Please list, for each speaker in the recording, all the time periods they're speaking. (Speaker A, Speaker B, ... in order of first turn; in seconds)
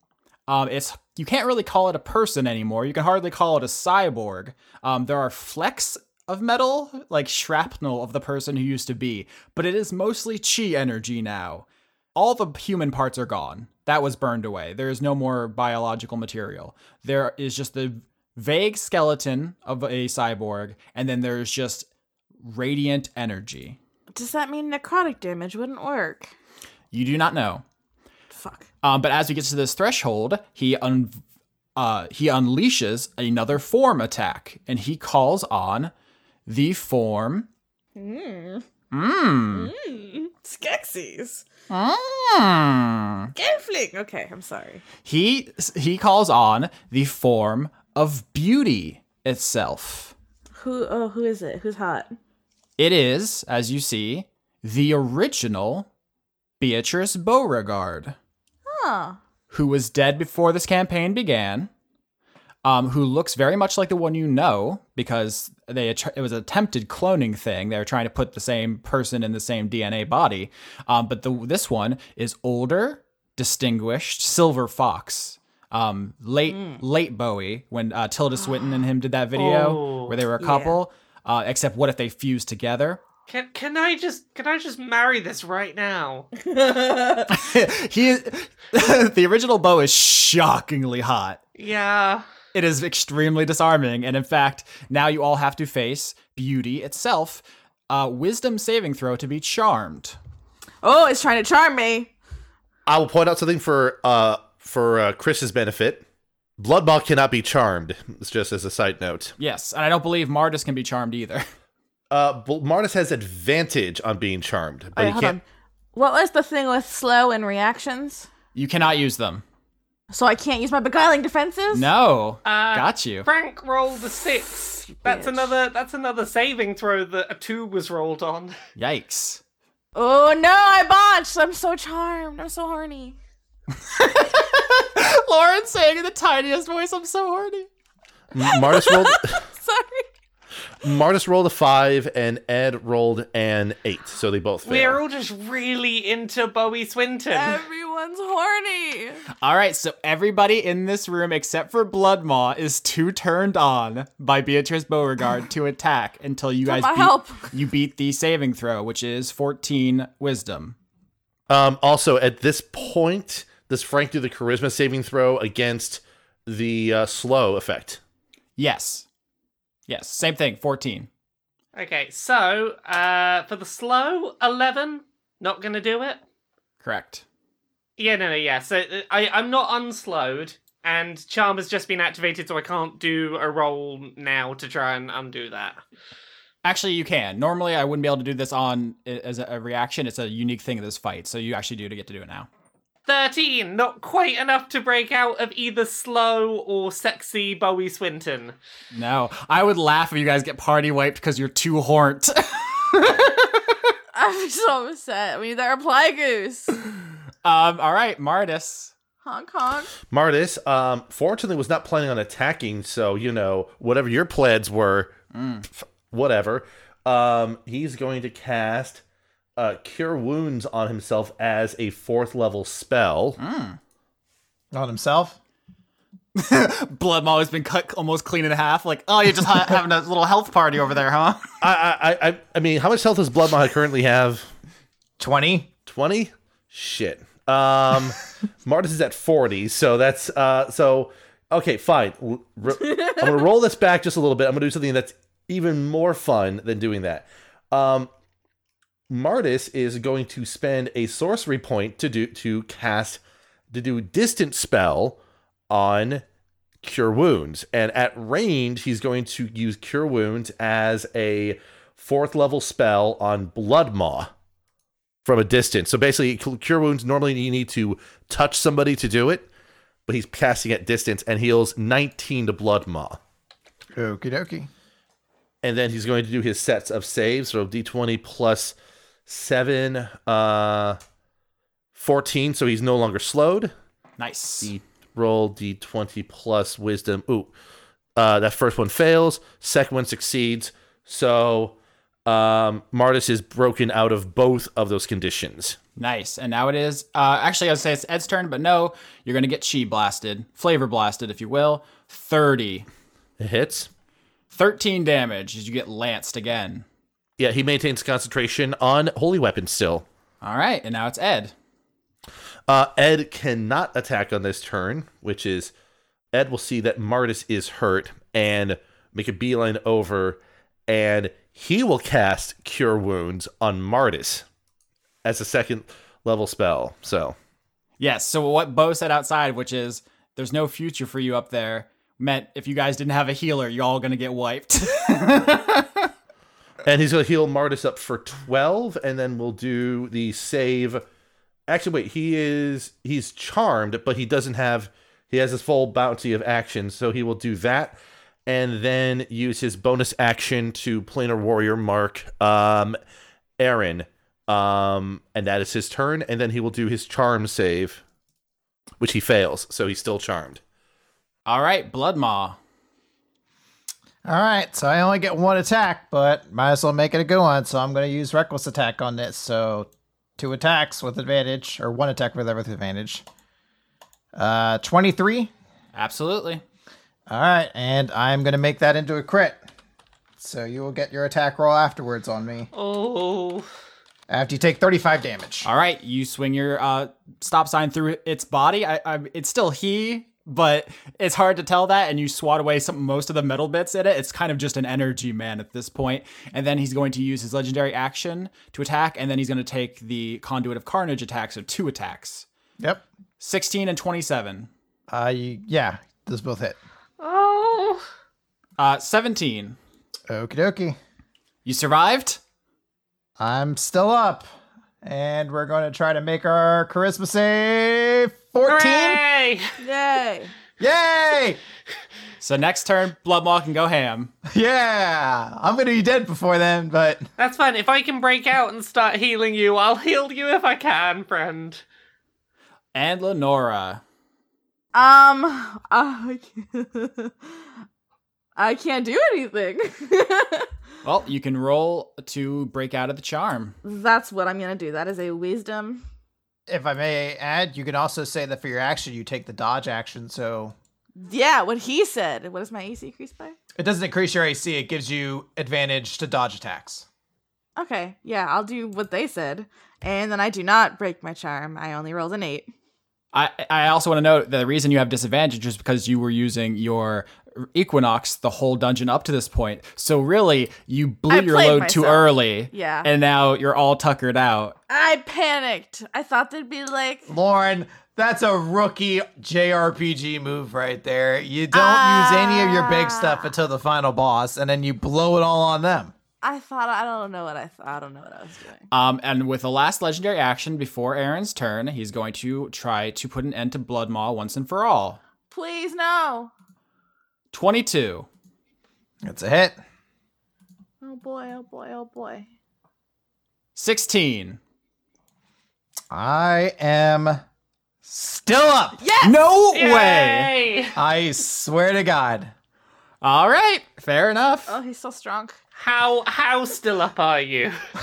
Speaker A: 0.5-21.9, 22.4-23.8, 26.9-27.6, 28.8-31.2, 31.8-35.9, 36.5-37.5, 38.9-39.7, 41.7-43.3, 45.0-50.1, 52.8-55.9, 56.6-58.1, 59.5-61.7, 62.6-83.0, 87.3-91.4, 92.5-100.2, 109.4-111.4, 118.5-119.4, 121.7-123.3, 128.8-129.4, 133.8-137.7, 149.4-160.8, 168.6-169.1, 169.9-171.1, 176.8-177.2, 186.6-192.5, 198.9-203.7, 207.4-208.9, 215.3-215.7, 223.4-223.8, 226.3-231.4, 284.2-284.7, 296.0-302.9, 304.5-306.8, 310.4-311.5, 328.0-336.1, 361.4-362.6, 375.9-376.6, 385.6-402.4, 403.4-404.7, 408.8-409.8, 411.6-412.4, 422.4-424.3, 432.9-434.0, 441.0-443.8, 463.3-474.8, 488.9-495.2, 497.5-498.3, 503.7-504.6, 509.2-510.5, 513.2-514.7
Speaker B: 24.1-26.3, 28.3-28.7, 38.0-38.7, 39.5-41.5, 43.3-44.8, 50.5-52.2, 58.6-59.2, 76.5-76.8, 80.4-80.8, 86.4-87.3, 100.8-102.1, 115.0-115.4, 115.9-118.3, 120.1-121.9, 125.0-125.5, 129.9-133.2, 138.7-140.1, 147.3-149.2, 156.6-157.5, 204.1-206.7, 209.2-209.9, 242.8-243.2, 419.8-420.5, 434.9-437.5, 438.6-440.7, 443.8-446.0, 451.2-453.6, 457.8-462.7, 471.3-473.1, 474.9-477.3, 481.7-483.5, 486.4-488.9, 495.5-496.5, 501.0-502.5, 509.0-509.4, 514.7-515.6
Speaker C: 79.3-80.1, 83.3-86.3, 91.5-92.2, 122.4-128.5, 144.6-147.6, 171.7-176.2, 178.0-185.8, 193.1-198.6, 382.7-383.7, 407.2-408.0, 418.6-419.6, 427.4-431.8, 509.7-510.9, 515.8-517.8
Speaker D: 102.9-106.0, 106.6-109.3, 112.1-115.4, 138.3-139.4, 140.8-145.0, 161.5-168.0, 210.1-215.2, 216.1-219.0, 219.6-223.4, 231.6-234.5, 235.8-248.1, 249.1-253.2, 253.7-255.2, 255.7-256.2, 256.8-264.3, 265.2-269.5, 270.1-273.2, 275.6-278.8, 279.3-281.0, 281.9-283.7, 284.6-287.5, 288.1-291.7, 292.2-295.8, 303.4-303.9, 307.4-310.0, 312.7-315.7, 316.3-324.4, 325.2-327.3, 336.8-341.0, 341.7-353.0, 353.6-358.0, 359.0-360.6
Speaker E: 224.7-225.4, 235.2-235.7, 273.9-274.7, 364.2-373.2, 374.3-375.5, 377.3-379.6, 380.4-382.7, 384.3-385.7, 402.8-403.0, 405.1-406.8, 410.3-411.0, 413.4-414.5, 415.0-419.2, 420.8-421.6, 424.5-427.2, 446.7-450.7, 453.8-457.1, 477.3-486.1, 499.2-499.8, 506.1-507.4, 508.0-509.0, 510.9-512.5